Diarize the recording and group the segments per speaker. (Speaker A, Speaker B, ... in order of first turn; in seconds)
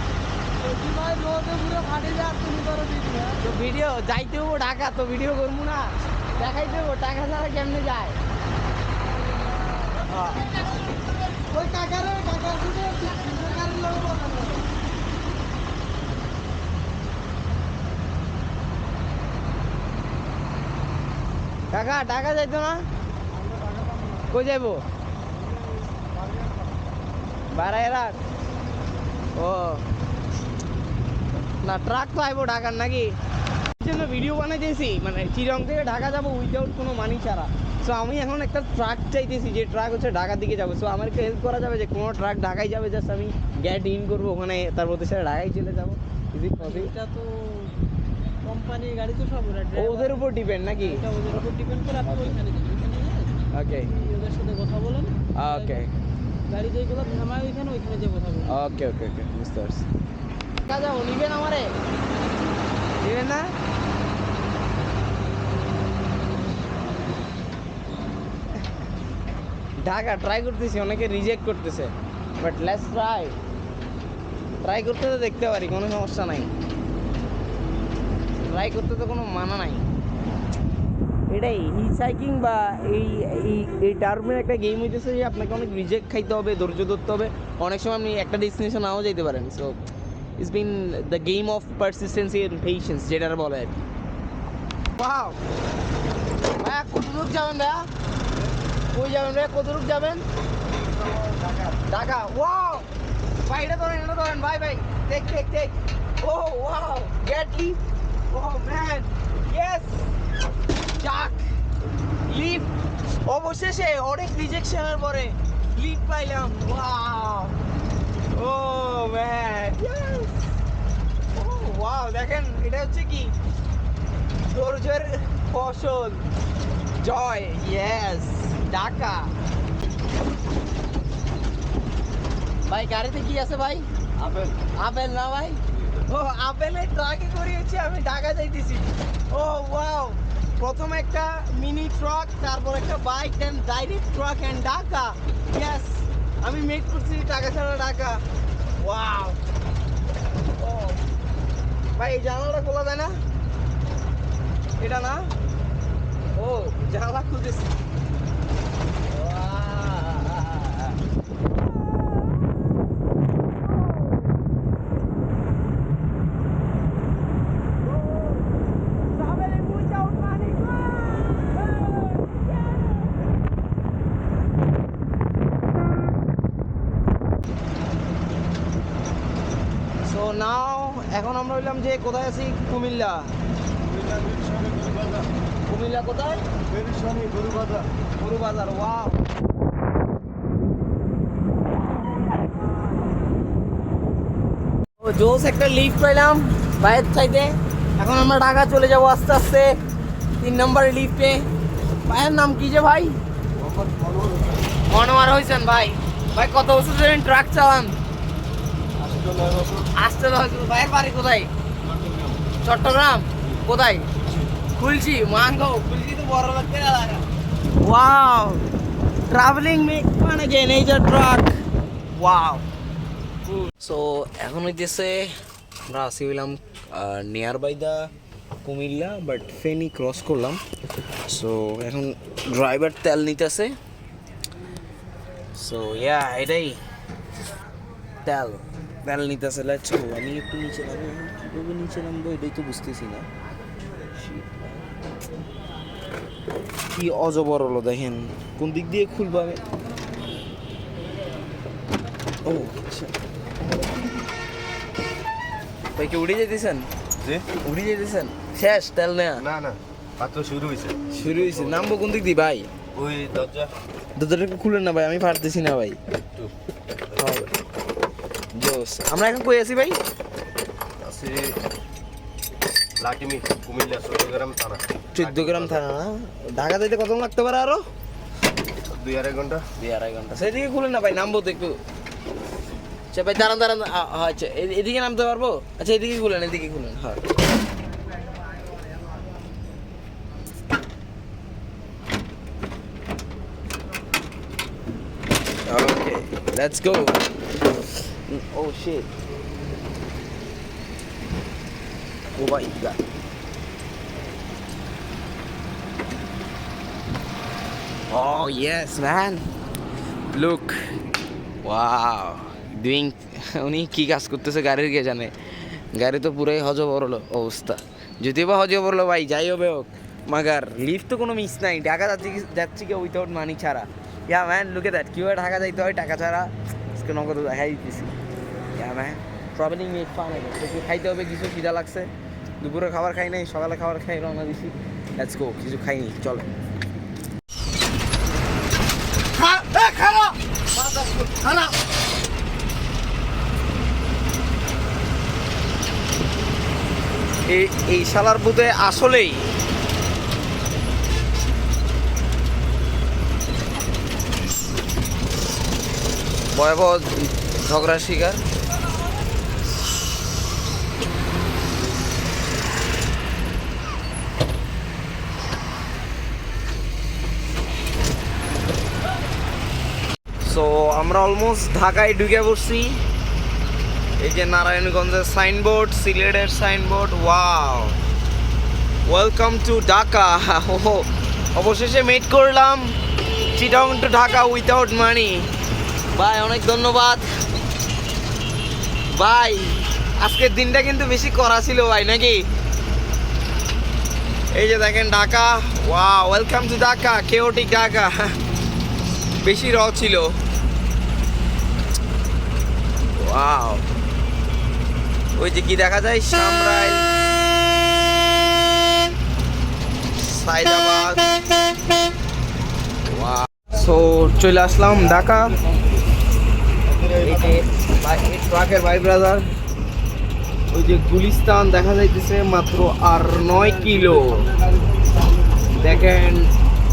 Speaker A: 0.6-3.4, 11.5-14.6, 23.5-24.1, 26.2-26.6, 46.6-47.8, 48.4-50.2, 50.8-53.4, 53.9-55.9, 56.5-58.5
Speaker B: 3.4-8.2, 10.0-10.5, 21.7-22.9, 24.2-24.8, 27.5-28.2, 29.4-29.9, 31.6-33.1, 33.8-46.9, 49.7-51.1, 52.0-52.4, 53.5-53.9, 55.3-55.9, 58.4-59.9, 60.6-61.7, 63.0-63.5, 69.8-73.4, 74.6-76.5, 78.5-79.8, 81.3-89.8, 90.4-93.8, 95.0-95.4, 96.6-97.9, 98.9-100.2, 101.7-102.9, 103.5-110.1, 111.0-111.5, 112.3-112.7, 113.2-117.6, 118.3-120.5, 121.3-123.3, 124.5-126.3, 127.0-129.3, 132.7-133.9, 134.6-148.2, 148.8-149.4, 150.6-151.0, 152.0-153.2, 154.8-155.3, 156.4-157.7, 159.1-161.0, 161.8-162.4, 163.6-164.3, 167.8-168.5, 169.1-173.2, 180.1-183.3, 185.7-186.5, 188.2-189.2, 195.0-199.8, 200.4-201.5, 202.1-203.2, 204.9-207.9, 209.9-211.5, 212.6-214.1, 214.7-217.2, 217.8-218.7, 219.3-221.6, 222.2-222.7, 223.6-225.4, 225.9-228.1, 228.6-230.6, 231.3-233.8, 235.6-236.8, 238.2-243.3, 244.2-244.9, 246.9-249.6, 252.4-253.2, 256.0-256.9, 257.6-259.5, 261.1-262.7, 264.2-266.0, 267.2-267.5, 268.5-270.0, 275.1-277.8, 279.8-281.8, 283.1-287.3, 295.7-299.1, 302.4-303.0, 308.1-309.5, 310.3-310.9, 311.6-328.2, 328.8-336.5, 339.4-341.7, 347.5-349.5, 356.5-358.4, 370.4-373.0, 374.2-378.0, 379.1-382.9, 383.6-385.5, 386.1-387.2, 389.1-392.5, 394.5-398.3, 399.4-400.3, 403.1-403.9, 405.4-407.1, 410.1-411.4, 413.1-415.6, 417.1-419.5, 420.7-424.5, 425.6-426.5
Speaker C: 101.0-101.7, 184.0-185.2, 186.8-187.9, 203.6-204.5, 209.0-209.9, 257.2-257.5, 259.4-261.9, 262.9-263.7, 271.0-271.6, 273.0-275.8, 278.9-279.7